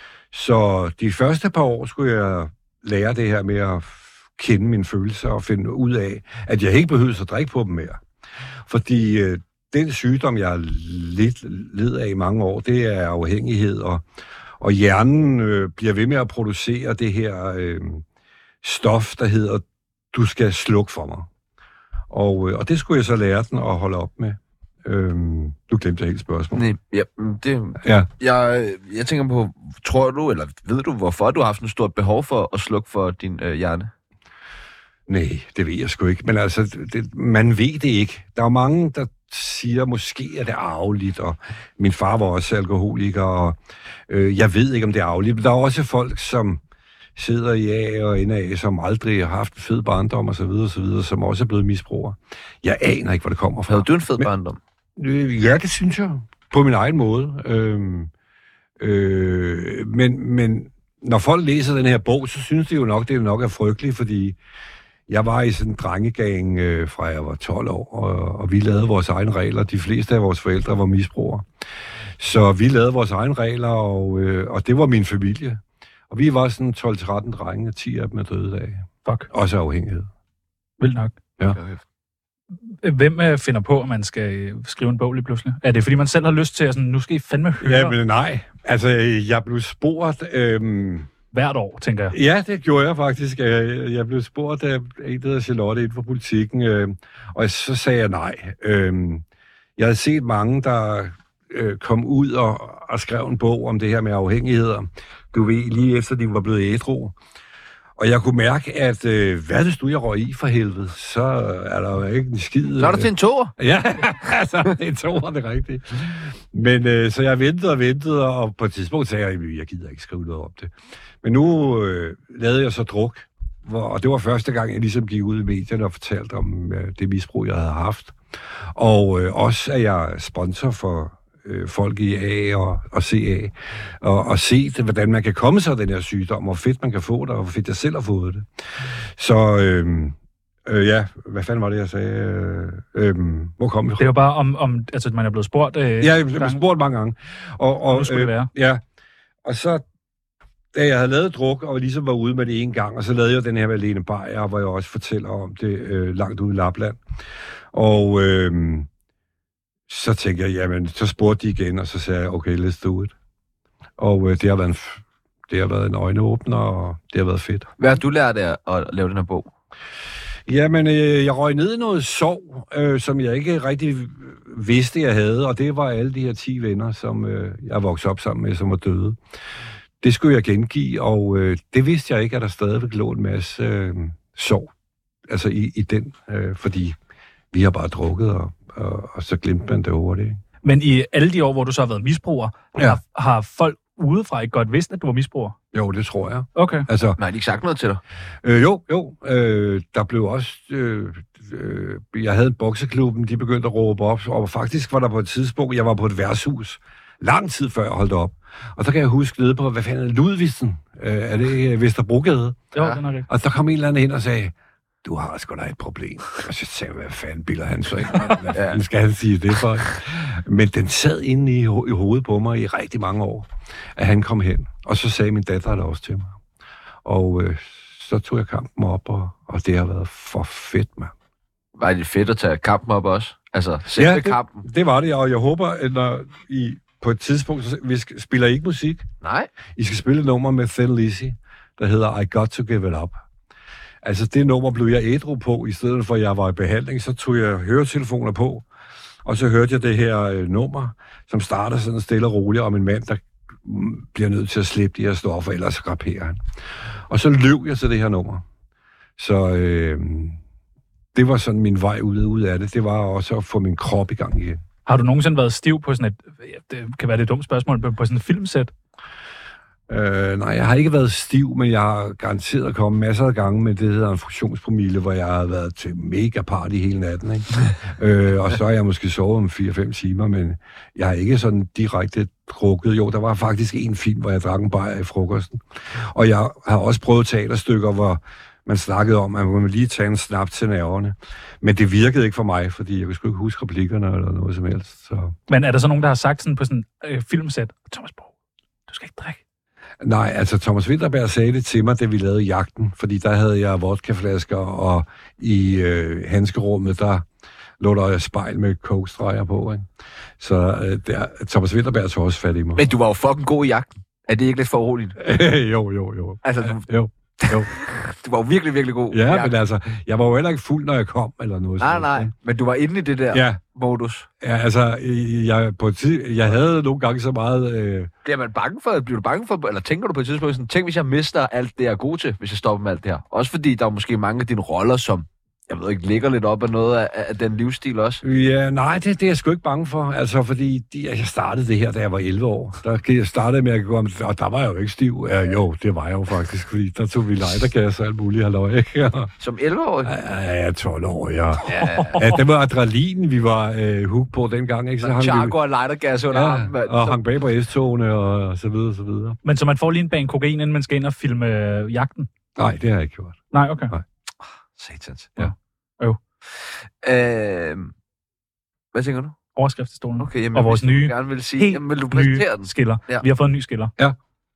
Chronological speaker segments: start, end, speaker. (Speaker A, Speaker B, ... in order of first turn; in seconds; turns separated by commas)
Speaker A: 0.3-8.0, Speaker A: 8.7-14.0, Speaker A: 14.6-18.0, Speaker A: 18.6-21.3, Speaker A: 22.1-26.7, Speaker B: 26.5-33.9, Speaker A: 27.8-28.1, Speaker A: 35.1-46.6, Speaker A: 47.1-54.3, Speaker B: 53.7-54.6, Speaker A: 55.0-58.1, Speaker A: 58.8-64.4, Speaker A: 65.1-71.5, Speaker A: 72.2-80.1, Speaker C: 80.8-81.2, Speaker B: 81.5-81.8, Speaker C: 82.6-88.0, Speaker A: 87.6-91.1, Speaker C: 91.3-92.2, Speaker A: 92.1-99.2, Speaker A: 99.8-107.2, Speaker A: 108.0-128.2, Speaker B: 112.8-113.5, Speaker A: 128.7-138.4, Speaker A: 139.2-144.1, Speaker C: 144.0-146.6, Speaker A: 146.0-148.8, Speaker C: 147.9-148.5, Speaker A: 149.4-149.8, Speaker A: 150.7-157.0, Speaker A: 157.7-158.9, Speaker A: 159.9-163.1, Speaker A: 164.0-167.7, Speaker B: 167.8-169.5, Speaker A: 170.5-179.2, Speaker A: 180.0-184.7, Speaker A: 185.3-186.9, Speaker A: 187.5-190.4, Speaker C: 190.6-195.6, Speaker A: 195.7-197.2, Speaker C: 196.5-196.8, Speaker B: 197.2-198.0, Speaker A: 198.4-212.7, Speaker C: 212.7-213.3, Speaker A: 213.3-226.4, Speaker B: 218.5-218.8, Speaker A: 227.0-231.1, Speaker B: 231.8-234.6, Speaker A: 233.9-239.1, Speaker B: 239.2-239.5, Speaker A: 239.8-243.2, Speaker A: 244.0-248.7, Speaker A: 249.2-256.4, Speaker A: 257.1-258.4, Speaker A: 259.2-260.4, Speaker A: 261.1-264.6, Speaker C: 264.9-268.7, Speaker A: 269.9-295.3, Speaker C: 295.5-298.3, Speaker C: 298.9-299.4, Speaker A: 300.0-307.2, Speaker A: 307.8-309.9, Speaker A: 310.4-312.9, Speaker B: 312.8-315.2, Speaker A: 315.2-317.7, Speaker B: 316.4-316.8, Speaker B: 317.4-319.5, Speaker A: 319.1-322.3, Speaker B: 321.8-324.3, Speaker A: 323.3-323.6, Speaker A: 324.4-328.1, Speaker B: 328.2-338.2, Speaker A: 338.2-349.3, Speaker B: 349.4-350.1, Speaker A: 350.0-355.6, Speaker B: 351.7-352.3, Speaker C: 351.7-352.4, Speaker B: 355.0-357.2, Speaker A: 356.3-359.4, Speaker C: 359.4-362.3, Speaker A: 362.6-364.0, Speaker C: 363.5-363.9, Speaker B: 364.7-365.3, Speaker C: 365.4-366.2, Speaker B: 367.0-367.9, Speaker B: 368.9-369.4, Speaker C: 369.6-373.9, Speaker B: 370.2-373.2